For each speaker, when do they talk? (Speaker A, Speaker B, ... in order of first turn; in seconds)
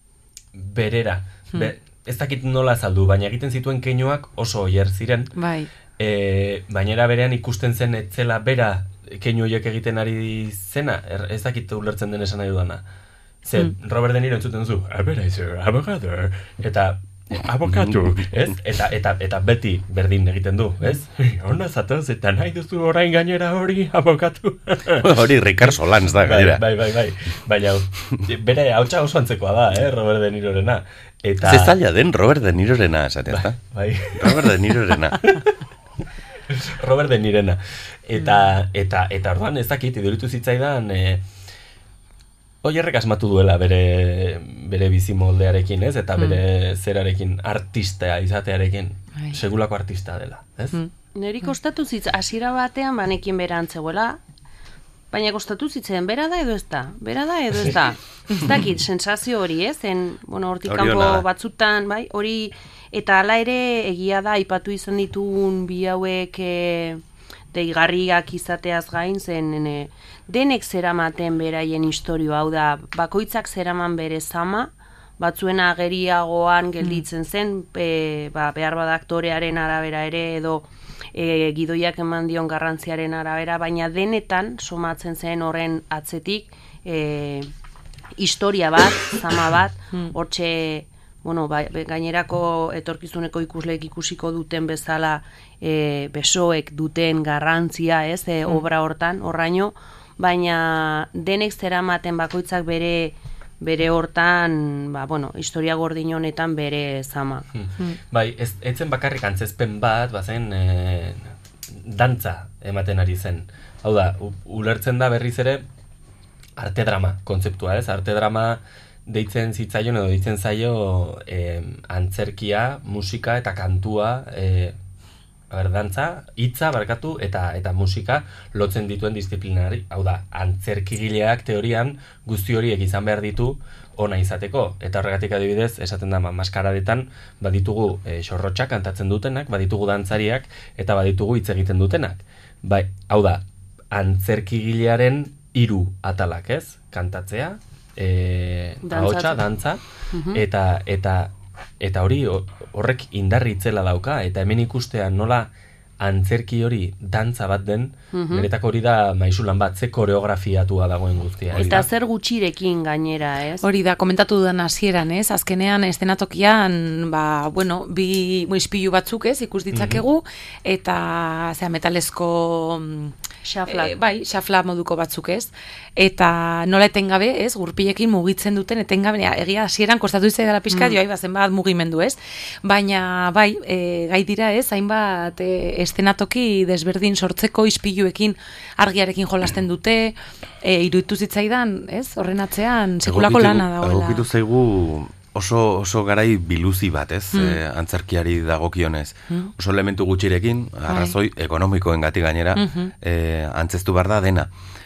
Speaker A: 0.5-5.3, 6.0-12.8, 13.4-25.2, 26.2-31.8, 33.3-34.5, 36.5-41.2, 42.6-50.8, 107.5-111.3, 111.8-115.7, 116.6-124.8, 125.5-143.4, 143.9-149.8, 150.3-155.5, 156.0-161.9, 169.7-170.0
Speaker B: 5.4-5.7, 76.8-77.1, 163.6-173.1, 173.7-194.2, 200.9-201.2, 202.6-202.9
Speaker C: 17.7-18.2, 25.0-26.6, 31.4-33.6, 34.1-35.3, 60.7-61.3, 161.5-161.8, 193.0-204.5
Speaker D: 51.2-54.2, 55.1-67.0, 67.5-87.5, 88.2-107.5, 148.8-149.4, 150.1-150.4, 158.1-158.5, 161.6-163.6, 173.4-173.9, 180.7-181.0